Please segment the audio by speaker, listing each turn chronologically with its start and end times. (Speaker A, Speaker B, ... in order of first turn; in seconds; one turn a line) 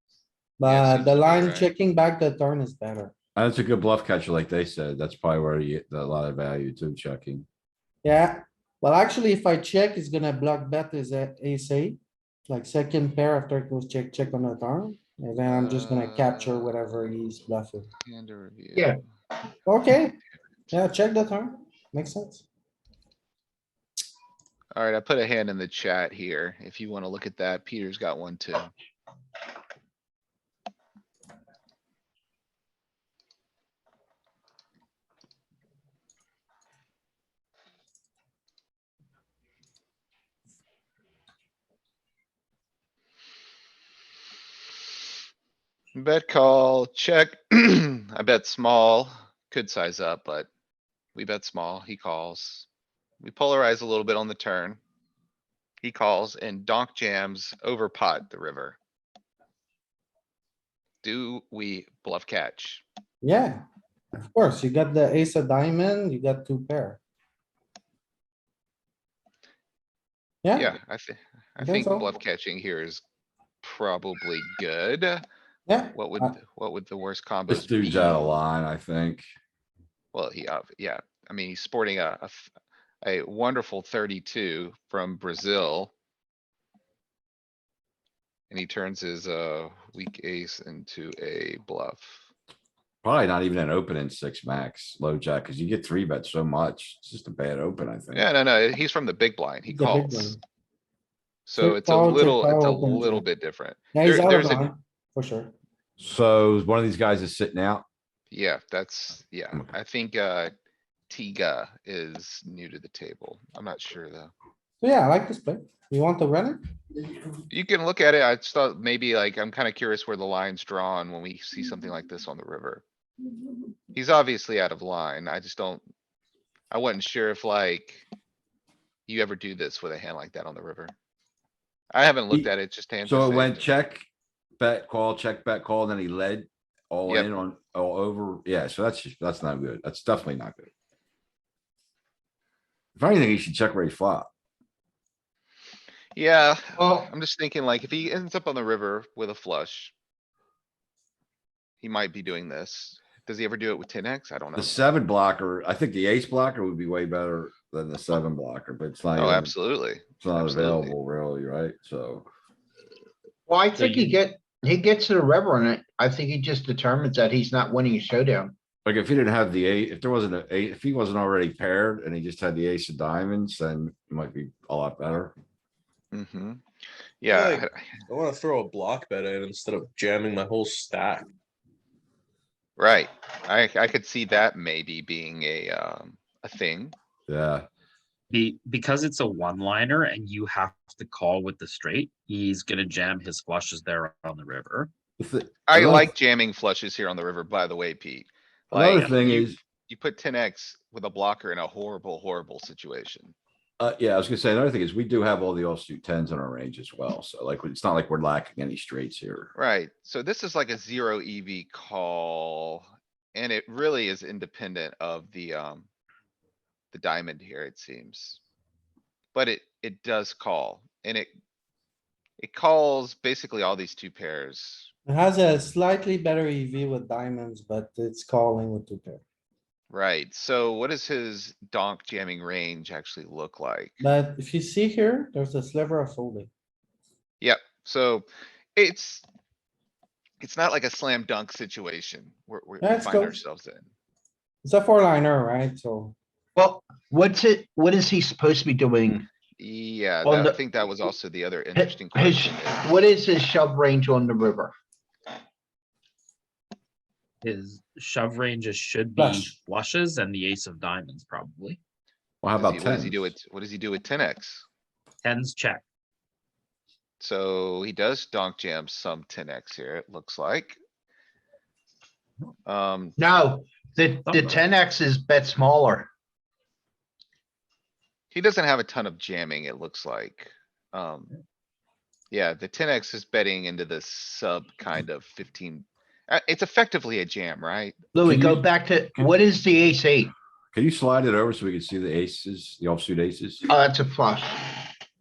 Speaker A: 0.6-3.1
Speaker B: 0.6-1.7
Speaker C: 3.3-7.5
Speaker A: 8.0-17.9
Speaker B: 15.5-16.8
Speaker B: 18.0-19.0
Speaker A: 19.6-20.2
Speaker A: 20.7-22.4
Speaker B: 24.7-28.7
Speaker B: 45.9-50.5
Speaker B: 51.1-52.7
Speaker B: 53.2-54.8
Speaker B: 55.8-58.8
Speaker B: 61.0-62.8
Speaker A: 63.2-63.6
Speaker A: 64.2-67.0
Speaker A: 70.4-70.8
Speaker B: 70.5-73.0
Speaker A: 71.6-72.1
Speaker B: 73.6-75.2
Speaker A: 75.7-76.3
Speaker B: 75.9-78.2
Speaker C: 77.5-79.3
Speaker B: 80.1-82.5
Speaker B: 83.0-85.9
Speaker B: 88.5-92.2
Speaker C: 93.0-98.2
Speaker B: 98.1-100.3
Speaker A: 99.7-100.4
Speaker B: 101.5-104.7
Speaker A: 101.6-103.2
Speaker A: 103.9-105.5
Speaker C: 106.0-107.8
Speaker B: 108.3-110.5
Speaker B: 111.1-114.3
Speaker A: 114.8-116.6
Speaker B: 117.5-122.8
Speaker B: 123.9-125.8
Speaker B: 126.7-128.1
Speaker B: 129.1-130.9
Speaker B: 131.9-133.7
Speaker C: 133.0-134.1
Speaker C: 134.6-140.7
Speaker C: 142.9-144.3
Speaker B: 146.1-149.9
Speaker D: 146.8-147.1
Speaker B: 151.8-154.8
Speaker C: 154.5-159.5
Speaker B: 159.2-160.9
Speaker C: 160.2-162.3
Speaker D: 163.5-168.5
Speaker E: 163.7-164.1
Speaker C: 168.8-175.3
Speaker B: 176.1-176.6
Speaker B: 177.2-177.9
Speaker F: 177.3-181.3
Speaker B: 182.8-186.9
Speaker C: 187.3-187.7
Speaker E: 188.3-194.9
Speaker C: 195.2-196.1
Speaker B: 195.7-203.3
Speaker C: 198.7-199.6
Speaker E: 198.9-199.2
Speaker C: 203.8-209.5
Speaker B: 209.5-215.9
Speaker B: 216.9-218.4
Speaker B: 219.3-221.3
Speaker B: 222.4-224.9
Speaker A: 225.1-229.2
Speaker B: 229.9-234.0
Speaker A: 234.0-236.5
Speaker B: 237.4-239.2
Speaker B: 240.4-243.9
Speaker A: 242.8-243.4
Speaker A: 244.6-246.1
Speaker D: 246.6-249.2
Speaker B: 249.6-253.0
Speaker D: 250.2-250.6
Speaker D: 251.8-254.7
Speaker E: 257.4-261.8
Speaker A: 259.2-259.5
Speaker C: 262.4-263.3
Speaker B: 262.6-264.6
Speaker E: 265.2-265.8
Speaker B: 267.2-270.8
Speaker B: 272.7-273.2
Speaker D: 273.2-276.1
Speaker E: 274.3-274.6
Speaker B: 278.3-281.3
Speaker B: 282.3-288.0
Speaker D: 288.1-290.3
Speaker C: 288.2-288.6
Speaker C: 290.7-293.6
Speaker D: 293.7-294.8